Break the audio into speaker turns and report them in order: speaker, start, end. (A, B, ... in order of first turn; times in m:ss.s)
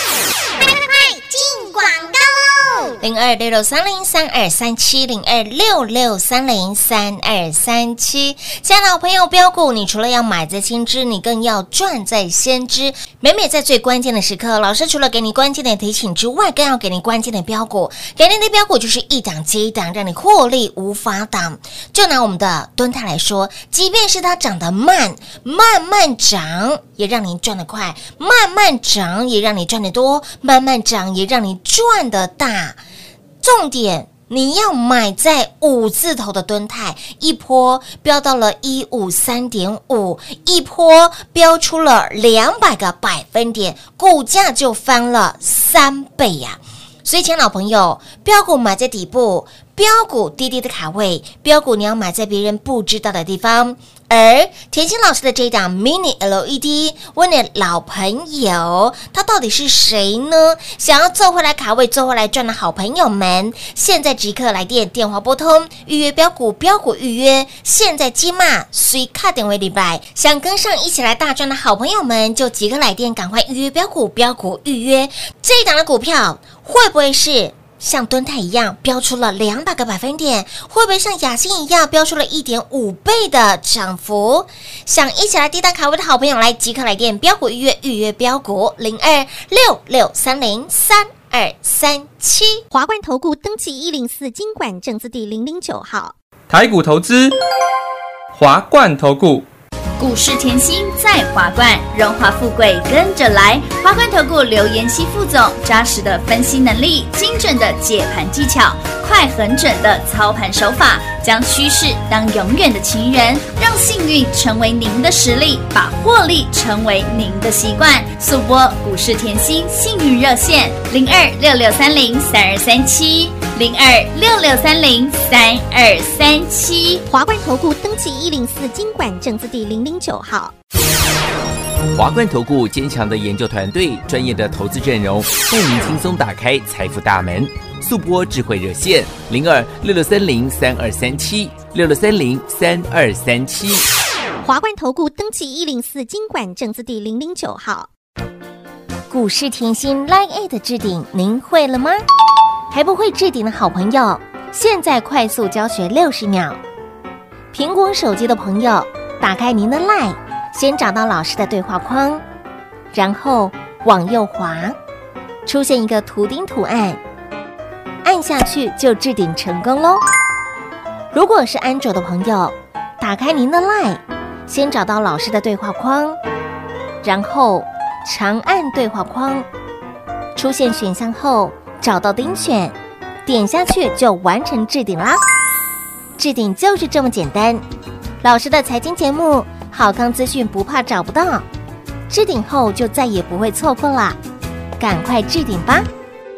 0:00.5-0:02.9 A
0:03.0-0:32.8 B
0:33.4-1:32.6 B
1:32.7-1:36.1 C
1:36.5-1:37.3 D
1:38.3-1:39.5 D
1:40.0-2:07.0 E
2:07.1-2:10.5 C
2:11.9-2:23.9 F
2:24.4-2:27.9 C
2:29.1-2:32.0 B
2:32.7-2:36.6 B
2:37.5-2:42.2 B
2:42.9-2:44.8 B
2:45.4-2:47.0 B
2:48.0-2:50.0 B
2:51.1-2:56.2 B
2:57.0-2:59.5 B
3:00.4-3:02.7 B
3:03.2-3:05.2 B
3:06.2-3:07.6 B
3:08.2-3:11.4 B
3:12.1-3:14.2 B
3:14.8-3:15.9 B